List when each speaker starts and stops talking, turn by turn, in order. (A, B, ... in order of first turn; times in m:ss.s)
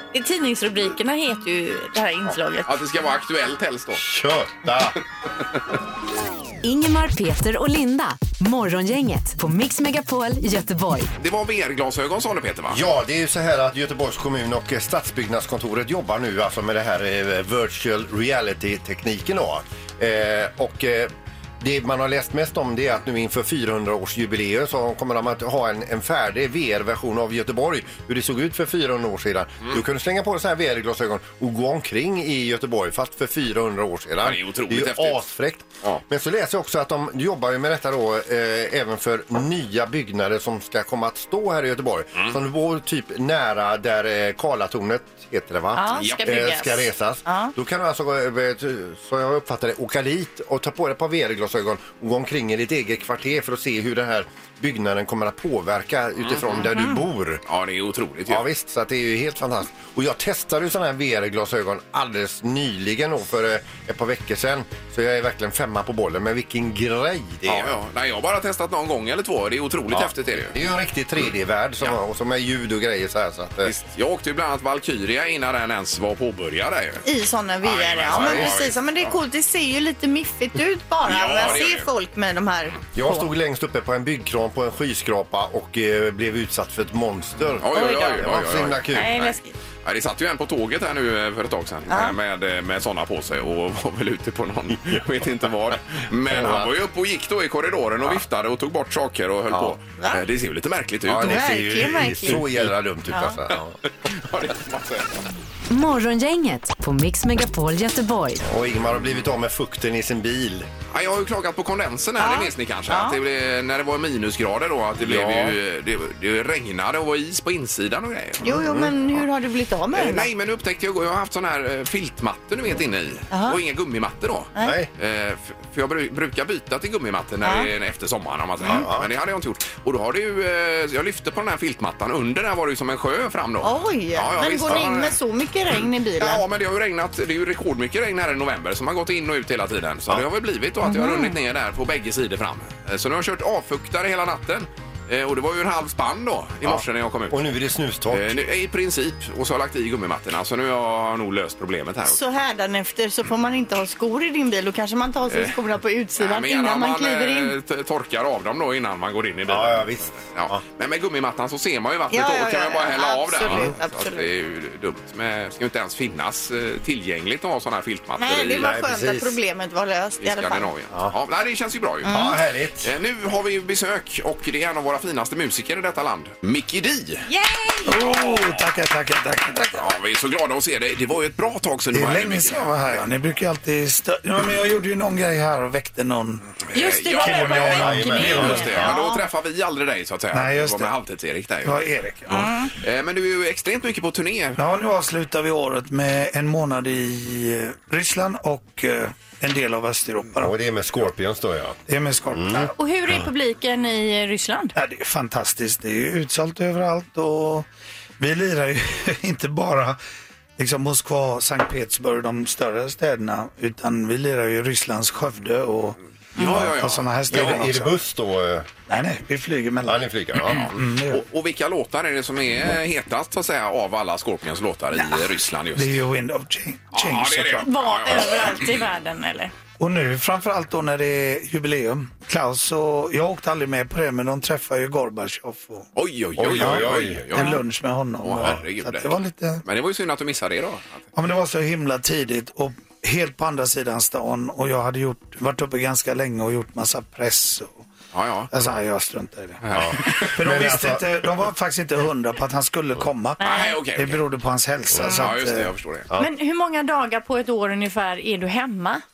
0:00.1-0:02.7 A
0:02.3-0:04.0 B
0:04.0-0:05.0 C
0:06.6-0:11.1 D
0:11.2-0:12.8 B
0:12.7-0:57.4 C
0:34.2-0:35.2 B
0:45.7-0:47.5 A
0:46.0-0:46.4 B
0:56.2-0:56.6 B
0:56.6-0:57.0 A
0:57.5-0:58.4 B
0:58.3-1:07.8 C
1:07.4-1:10.6 B
1:09.9-1:13.7 C
1:13.6-1:17.0 B
1:17.0-1:23.3 A
1:17.6-1:19.1 B
1:18.1-1:18.6 C
1:21.0-1:21.9 B
1:22.9-1:29.2 C
1:27.6-1:41.6 B
1:27.7-1:28.4 A
1:28.9-1:29.5 A
1:31.9-1:32.2 A
1:36.3-1:36.7 C
1:41.0-1:43.8 C
1:41.2-1:42.5 A
1:43.1-1:43.4 A
1:43.5-1:45.2 B
1:45.7-1:48.4 D
1:48.4-1:50.7 C
1:50.9-1:58.5 B
1:52.2-1:53.2 A
1:55.0-1:55.6 C
1:58.4-2:00.3 A
1:58.4-1:58.9 C
1:59.9-2:15.2 B
2:03.3-2:03.6 A
2:04.6-2:04.9 C
2:07.4-2:07.7 A
2:08.6-2:09.1 C
2:13.6-2:16.4 A
2:16.2-2:27.5 B
2:20.8-2:21.4 A
2:26.6-2:28.4 C
2:28.1-2:32.2 B
2:32.1-2:37.6 A
2:35.3-2:35.6 B
2:36.2-2:48.7 B
2:39.5-2:40.6 C
2:42.1-2:44.3 A
2:43.5-2:43.7 C
2:48.2-2:50.7 A
2:48.6-2:49.4 C
2:50.2-2:52.1 B
2:52.0-2:52.4 A
2:52.0-2:52.9 C
2:52.8-2:57.3 B
2:57.3-2:58.2 A
2:57.8-2:59.8 E
2:59.7-3:02.8 B
3:01.9-3:06.5 E
3:06.7-3:11.8 B
3:06.7-3:09.2 A
3:07.2-3:08.9 E
3:07.7-3:08.7 C
3:10.3-3:10.9 E
3:11.6-3:12.5 E
3:12.3-3:12.7 A
3:12.8-3:14.6 B
3:14.6-3:20.5 E
3:20.4-3:21.8 C
3:21.9-3:22.7 E
3:22.3-3:22.7 C
3:22.8-3:24.7 A
3:24.8-3:27.7 E
3:28.2-3:30.0 E
3:30.6-3:38.0 E
3:36.4-3:37.6 B
3:37.3-3:38.7 C
3:38.9-3:41.2 E
3:39.8-3:40.7 C
3:40.4-3:46.0 B
3:45.8-3:47.7 E
3:46.9-3:48.8 B
3:47.6-3:49.5 A
3:49.8-3:55.9 E
3:56.0-3:57.6 B
3:56.4-3:57.2 C
3:56.6-3:59.6 E
3:57.4-3:57.6 A
3:58.2-4:01.1 B
4:01.2-4:07.9 E
4:08.1-4:08.5 B
4:08.5-4:15.7 E
4:09.6-4:10.3 B
4:09.7-4:11.3 C
4:13.4-4:13.8 A
4:13.4-4:14.2 B
4:15.0-4:16.1 B
4:16.2-4:19.0 A